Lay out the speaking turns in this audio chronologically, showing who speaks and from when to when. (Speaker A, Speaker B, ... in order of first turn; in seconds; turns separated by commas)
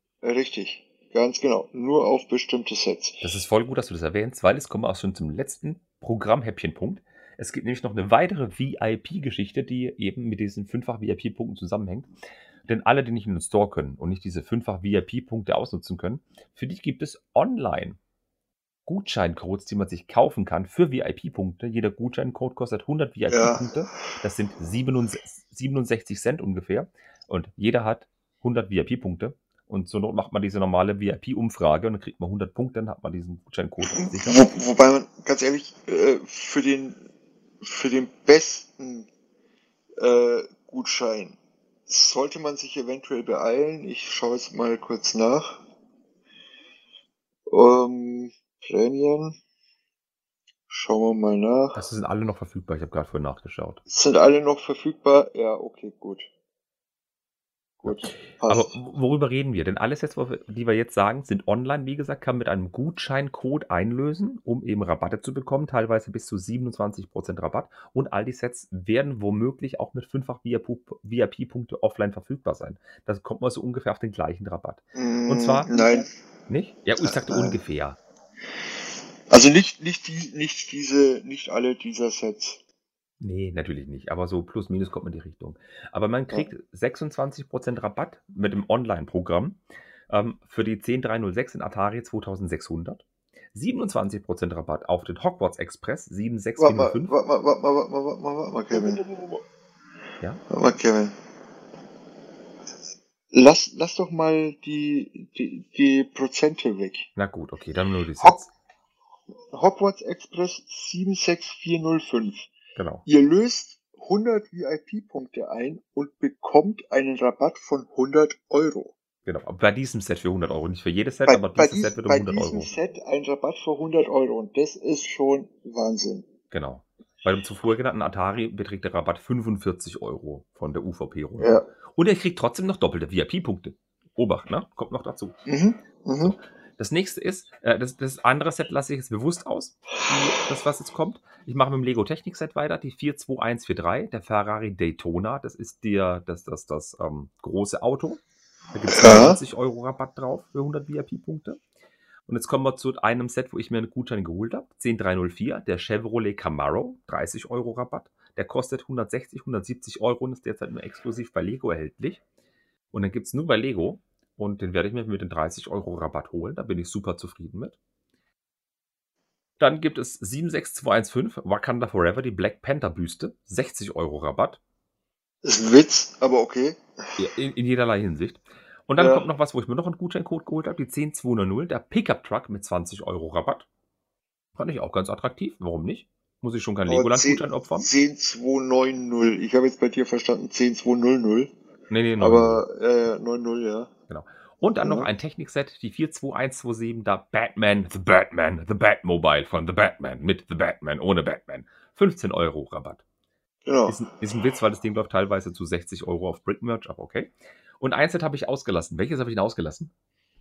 Speaker A: 0.2-3.2, Speaker B: 3.2-12.1, Speaker B: 12.7-18.0, Speaker B: 18.9-34.4, Speaker A: 23.3-23.7, Speaker A: 34.0-37.0, Speaker A: 37.6-39.1, Speaker A: 40.0-45.6, Speaker A: 47.5-49.4, Speaker A: 50.7-51.8, Speaker B: 51.7-53.8, Speaker A: 53.9-56.3, Speaker A: 57.8-58.8, Speaker B: 57.8-78.0, Speaker A: 74.9-76.1, Speaker A: 77.1-77.6, Speaker A: 79.3-82.6, Speaker B: 83.2-97.2, Speaker A: 96.6-99.4, Speaker A: 100.5-101.1, Speaker A: 103.3-107.1, Speaker B: 107.2-108.5, Speaker A: 109.5-112.5, Speaker B: 112.8-113.0, Speaker A: 113.0-118.9, Speaker B: 119.2-122.7, Speaker A: 121.2-126.3, Speaker B: 126.5-135.4, Speaker A: 131.4-131.7, Speaker A: 135.4-136.4, Speaker B: 136.2-148.2, Speaker B: 148.7-151.6, Speaker A: 148.9-149.4, Speaker B: 152.3-162.2, Speaker B: 162.9-167.8, Speaker B: 169.6-174.6, Speaker A: 175.4-176.8, Speaker B: 177.2-183.7, Speaker A: 179.0-179.2, Speaker B: 184.6-187.9, Speaker A: 186.9-191.5, Speaker B: 191.9-192.6, Speaker A: 192.2-193.9, Speaker B: 194.1-203.0, Speaker A: 194.8-195.1, Speaker A: 203.6-204.0, Speaker B: 203.9-209.9